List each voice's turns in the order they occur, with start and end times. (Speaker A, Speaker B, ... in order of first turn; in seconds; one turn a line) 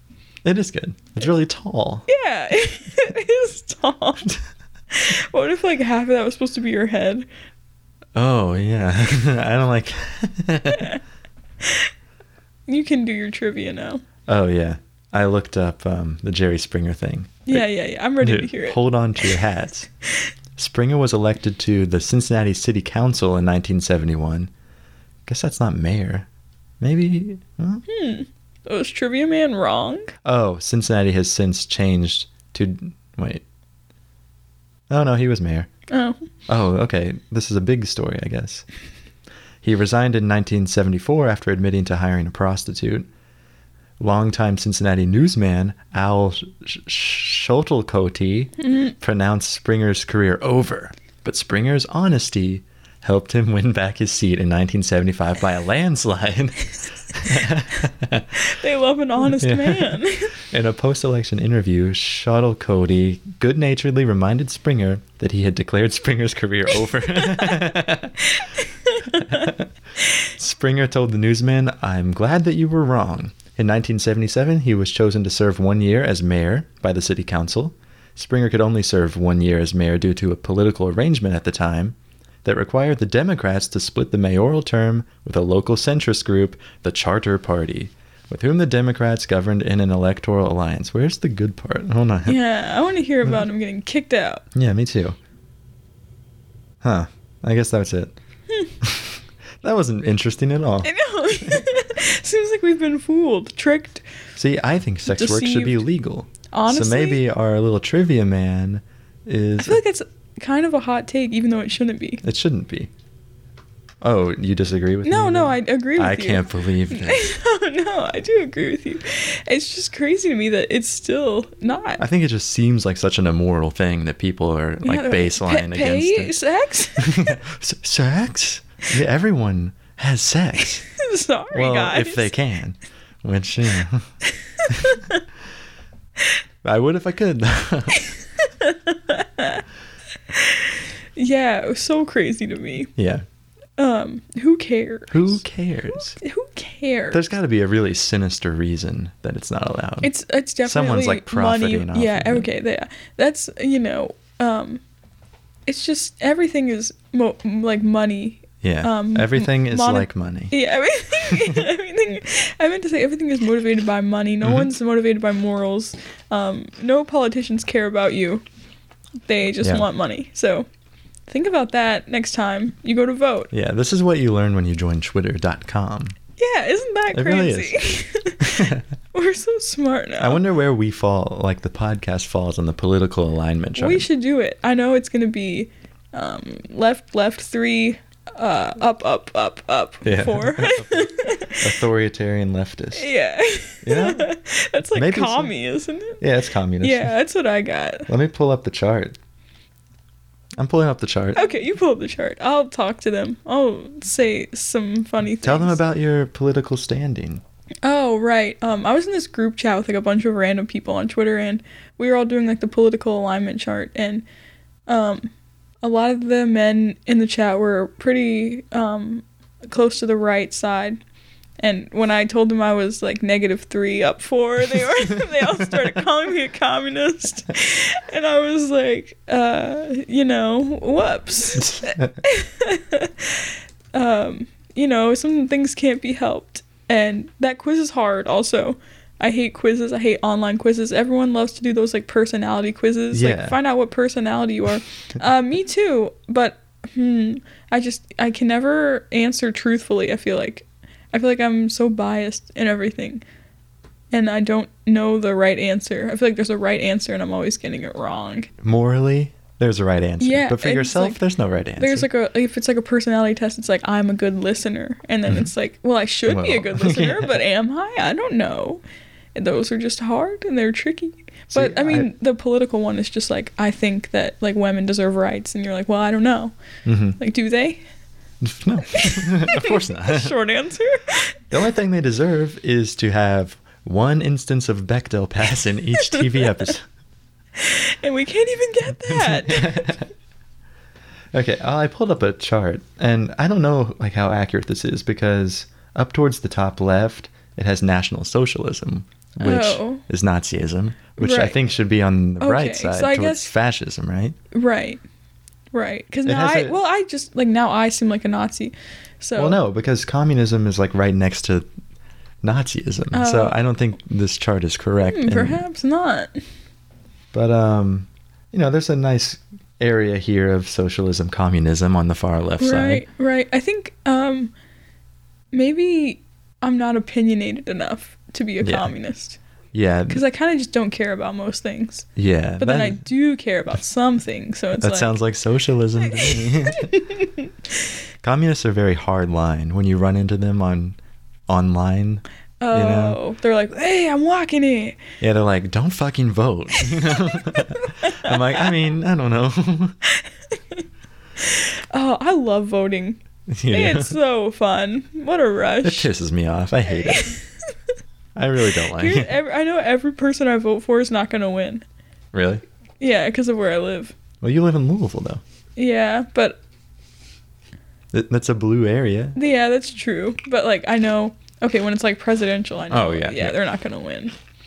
Speaker A: 0.4-2.0
Speaker B: 2.1-4.3
Speaker B: 4.9-7.2
Speaker A: 8.1-11.0
Speaker B: 10.7-11.0
Speaker B: 11.6-11.9
Speaker B: 12.7-14.0
Speaker A: 14.3-17.6
Speaker B: 17.5-19.3
Speaker A: 18.2-19.9
Speaker A: 20.6-24.5
Speaker A: 25.2-26.3
Speaker A: 26.8-27.8
Speaker B: 27.9-30.1
Speaker A: 30.2-33.4
Speaker A: 34.9-35.7
Speaker B: 35.9-36.2
Speaker A: 36.5-38.6
Speaker A: 39.6-43.1
Speaker A: 44.0-58.3
Speaker B: 48.6-48.9
Speaker B: 58.4-60.3
Speaker A: 59.2-68.2
Speaker B: 68.2-69.5
Speaker A: 69.1-69.7
Speaker A: 70.3-92.4
Speaker B: 92.2-94.4
Speaker A: 94.5-95.2
Speaker A: 96.8-98.1
Speaker A: 98.8-101.6
Speaker B: 100.8-104.0
Speaker A: 104.3-109.8
Speaker B: 105.1-105.8
Speaker B: 106.5-107.2
Speaker B: 109.6-112.2
Speaker A: 112.2-112.9
Speaker A: 114.0-117.2
Speaker B: 115.0-122.0
Speaker A: 122.0-126.4
Speaker B: 124.8-127.4
Speaker A: 127.0-130.8
Speaker B: 130.9-132.3
Speaker A: 131.5-134.1
Speaker B: 134.3-135.2
Speaker A: 134.7-135.0
Speaker A: 136.6-138.1
Speaker B: 137.9-139.6
Speaker B: 140.3-142.9
Speaker A: 143.0-143.2
Speaker B: 143.8-145.3
Speaker A: 145.1-146.2
Speaker B: 146.2-147.2
Speaker A: 147.1-150.1
Speaker B: 150.0-154.8
Speaker A: 150.6-152.5
Speaker B: 155.7-168.4
Speaker A: 158.6-160.5
Speaker A: 161.3-161.6
Speaker A: 164.4-164.7
Speaker B: 169.3-170.7
Speaker B: 171.3-173.5
Speaker A: 173.5-176.2
Speaker B: 176.4-180.4
Speaker A: 177.1-178.8
Speaker A: 180.2-184.1
Speaker B: 183.8-191.7
Speaker A: 190.0-193.1
Speaker B: 192.9-196.2
Speaker A: 193.8-194.3
Speaker A: 194.9-195.5
Speaker A: 196.2-197.1
Speaker B: 196.8-198.1
Speaker A: 198.1-199.2
Speaker A: 200.6-201.5
Speaker B: 201.3-205.8
Speaker A: 205.4-207.4
Speaker B: 207.8-214.2
Speaker B: 214.9-215.3
Speaker B: 215.8-221.0
Speaker B: 221.6-253.2
Speaker A: 231.6-232.2
Speaker A: 243.1-243.6
Speaker B: 254.1-258.5
Speaker A: 258.6-262.1
Speaker B: 260.2-261.2
Speaker B: 261.8-268.8
Speaker A: 266.3-267.4
Speaker B: 269.3-276.5
Speaker A: 271.5-272.1
Speaker A: 276.9-277.2
Speaker B: 277.2-277.8
Speaker A: 278.4-280.3
Speaker B: 278.9-281.4
Speaker A: 281.5-286.8
Speaker B: 286.1-286.5
Speaker B: 287.6-290.0
Speaker A: 289.0-290.1
Speaker A: 291.3-304.4
Speaker B: 299.4-300.0
Speaker B: 301.2-301.6
Speaker B: 302.4-303.5
Speaker B: 304.5-305.0
Speaker B: 305.7-309.6
Speaker A: 306.2-306.8
Speaker A: 309.4-311.7
Speaker A: 312.4-315.6
Speaker B: 313.1-313.6
Speaker B: 315.0-316.4
Speaker A: 317.3-323.0
Speaker B: 322.6-324.5
Speaker B: 325.5-329.4
Speaker A: 328.6-328.9
Speaker A: 329.7-330.2
Speaker B: 330.1-332.1
Speaker A: 332.1-333.0
Speaker B: 332.6-335.1
Speaker A: 334.8-336.9
Speaker B: 336.0-337.5
Speaker A: 338.2-341.0
Speaker A: 341.5-343.2
Speaker B: 342.6-345.0
Speaker A: 345.2-350.0
Speaker B: 347.0-348.7
Speaker B: 350.1-350.8
Speaker B: 351.4-356.1
Speaker A: 353.5-354.2
Speaker A: 355.8-357.4
Speaker B: 356.9-357.4
Speaker A: 358.3-359.3
Speaker B: 358.9-361.8
Speaker A: 362.3-362.6
Speaker B: 363.0-364.1
Speaker A: 364.4-365.4
Speaker B: 365.8-366.6
Speaker A: 368.1-369.4
Speaker B: 369.3-374.3
Speaker A: 372.9-373.6